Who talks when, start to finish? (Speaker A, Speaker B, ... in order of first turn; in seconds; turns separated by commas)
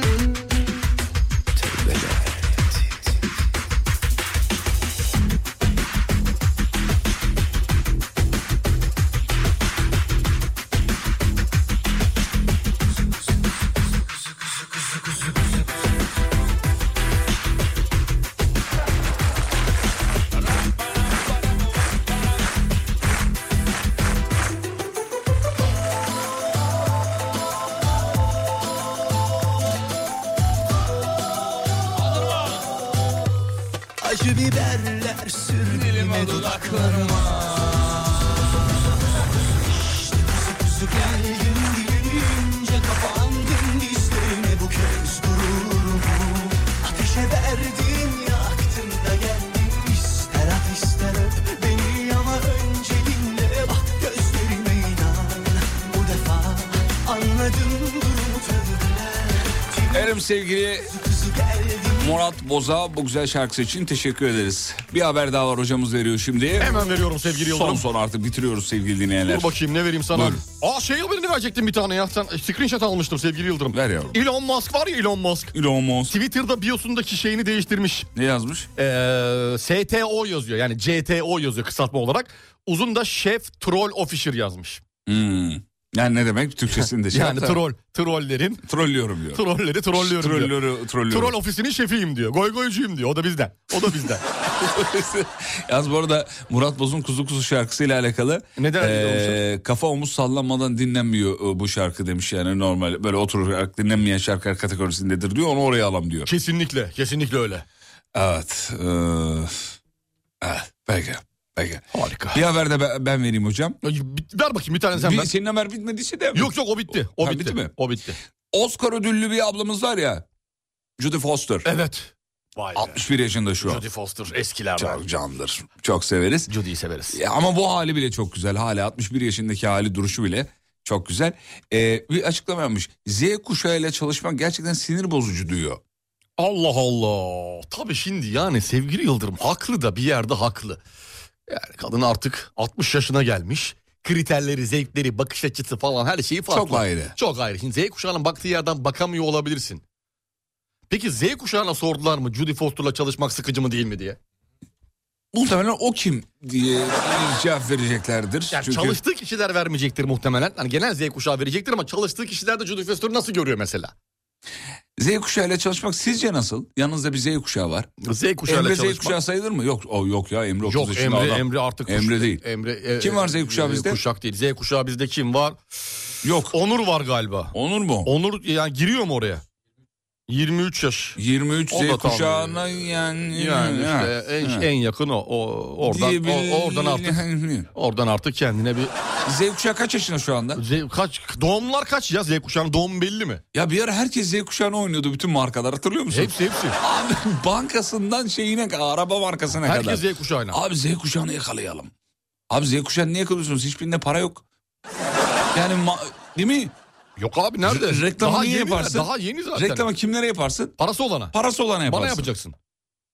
Speaker A: 1.6-2.7, Speaker A: 32.0-32.6, Speaker B: 34.0-38.2, Speaker A: 35.6-38.0, Speaker B: 39.6-60.2, Speaker A: 59.9-60.9, Speaker B: 60.8-62.1, Speaker A: 62.0-69.5, Speaker C: 66.6-67.8, Speaker C: 69.3-75.5, Speaker A: 70.1-70.4, Speaker A: 73.7-74.2, Speaker A: 75.5-76.2, Speaker C: 76.1-78.1, Speaker A: 78.1-78.7, Speaker C: 78.8-84.8, Speaker A: 85.0-87.6, Speaker C: 87.1-88.6, Speaker A: 88.7-91.3, Speaker C: 89.3-90.5, Speaker C: 91.1-94.2, Speaker A: 94.5-106.3, Speaker C: 98.6-99.4, Speaker C: 106.3-107.6, Speaker A: 108.1-109.7, Speaker A: 110.4-113.8, Speaker C: 111.9-112.4, Speaker C: 113.8-115.3, Speaker A: 115.0-116.5, Speaker C: 116.3-118.2, Speaker A: 117.0-117.7, Speaker A: 118.5-120.2, Speaker A: 121.0-121.7, Speaker C: 121.6-123.0, Speaker A: 122.7-123.8, Speaker C: 123.6-125.0, Speaker A: 124.8-126.5, Speaker C: 126.5-127.2, Speaker A: 127.1-135.8, Speaker C: 136.4-140.8, Speaker C: 141.5-149.8, Speaker A: 146.5-147.2, Speaker C: 150.9-154.2, Speaker A: 155.3-159.0, Speaker C: 158.5-163.9, Speaker A: 165.0-167.9, Speaker C: 168.0-169.2, Speaker A: 168.5-172.4, Speaker C: 170.6-175.6, Speaker A: 173.0-174.0, Speaker A: 176.2-176.5, Speaker C: 176.5-177.5, Speaker A: 177.5-178.1, Speaker C: 178.0-179.4, Speaker C: 180.3-181.2, Speaker A: 181.2-184.7, Speaker C: 181.7-182.6, Speaker C: 183.3-187.2, Speaker A: 185.8-187.7, Speaker C: 187.7-188.9, Speaker A: 189.2-190.6, Speaker C: 190.6-193.4, Speaker A: 193.5-201.9, Speaker C: 196.1-196.8, Speaker C: 199.6-200.6, Speaker A: 202.5-204.4, Speaker A: 205.5-206.7, Speaker C: 207.2-209.9, Speaker A: 207.6-210.8, Speaker C: 210.8-211.3, Speaker A: 211.3-212.3, Speaker C: 211.8-212.5